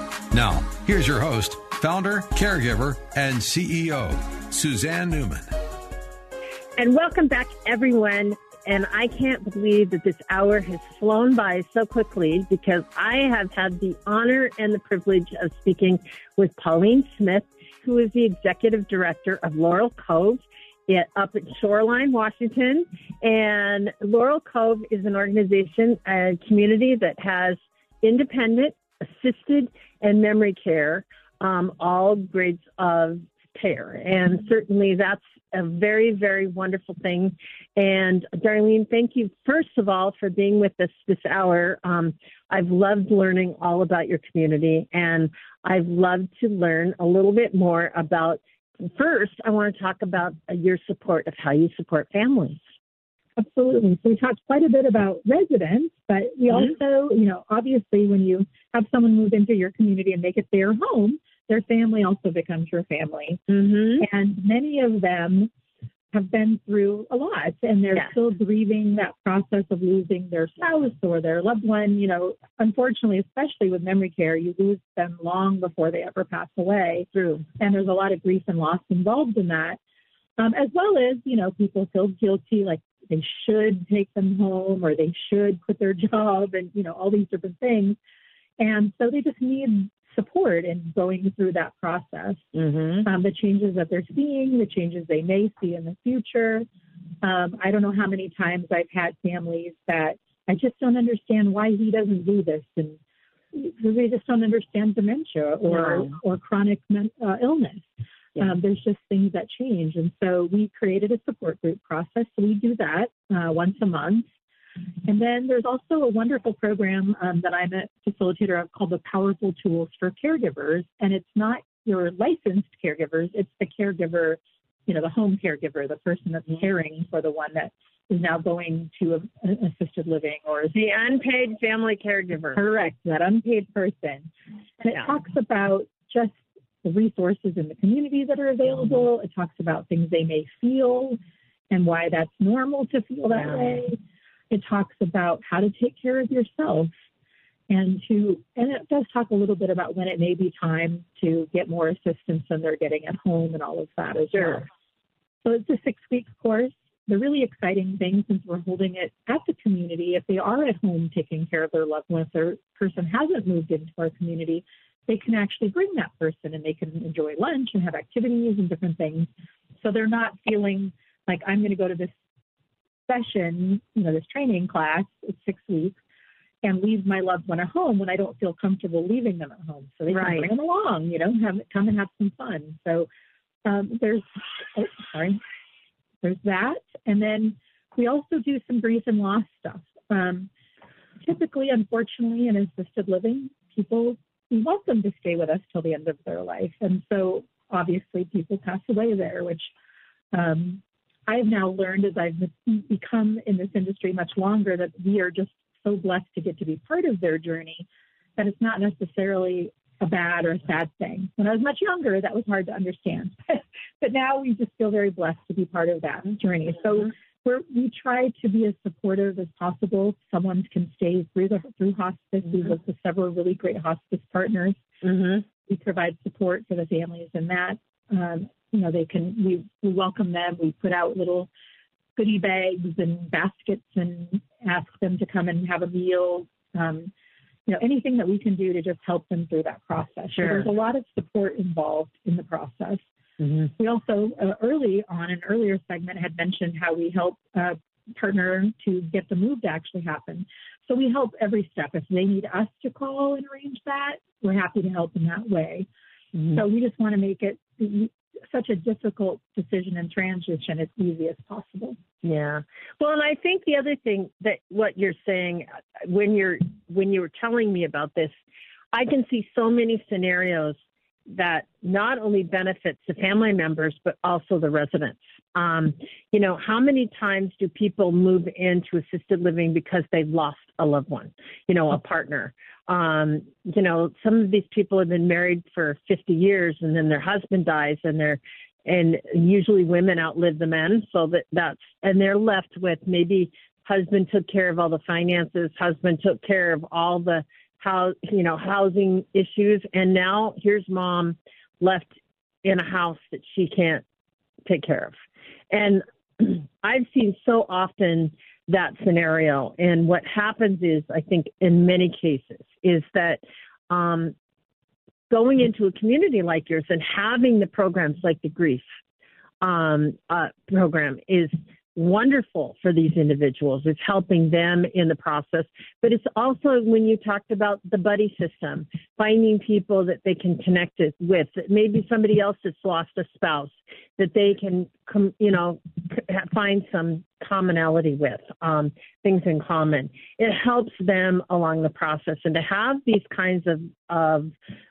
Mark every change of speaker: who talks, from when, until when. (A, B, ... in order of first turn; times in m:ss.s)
0:00.3-0:05.4 A
0:06.8-0:52.6 B
0:53.4-1:03.4 C
1:03.5-1:04.0 B
1:04.0-1:05.5 C
1:06.1-1:19.8 C
1:17.1-1:17.4 B
1:20.4-1:28.0 C
1:28.6-1:32.4 C
1:32.5-1:33.1 B
1:33.0-1:36.7 C
1:37.2-1:43.0 C
1:43.5-1:54.3 C
1:45.7-1:46.1 B
1:55.1-2:10.8 C
2:10.7-2:12.6 B
2:12.5-2:14.3 C
2:14.8-2:21.2 C
2:14.9-2:15.1 B
2:21.7-2:24.0 C
2:24.5-2:26.9 C
2:27.7-2:34.7 C
2:34.3-2:34.6 B
2:35.4-2:49.3 C
2:49.8-2:52.1 C
2:53.1-2:56.0 C
2:56.6-3:03.1 C
3:00.1-3:00.5 B
3:03.6-3:05.4 C
3:06.2-3:10.5 C
3:11.2-3:19.7 C
3:20.3-3:27.8 C
3:28.4-3:44.8 C
3:45.0-3:45.4 B
3:45.5-3:51.5 C
3:52.2-3:57.1 C
3:57.7-4:03.0 C
4:00.3-4:00.7 B
4:03.4-4:03.7 B
4:03.8-4:15.9 C
4:16.3-4:16.6 B
4:16.5-4:22.0 C
4:22.2-4:28.3 B
4:28.9-4:30.8 B
4:31.3-5:04.0 B
5:04.6-5:05.1 B
5:05.7-5:14.3 B
5:15.3-5:18.8 B
5:19.6-5:44.5 B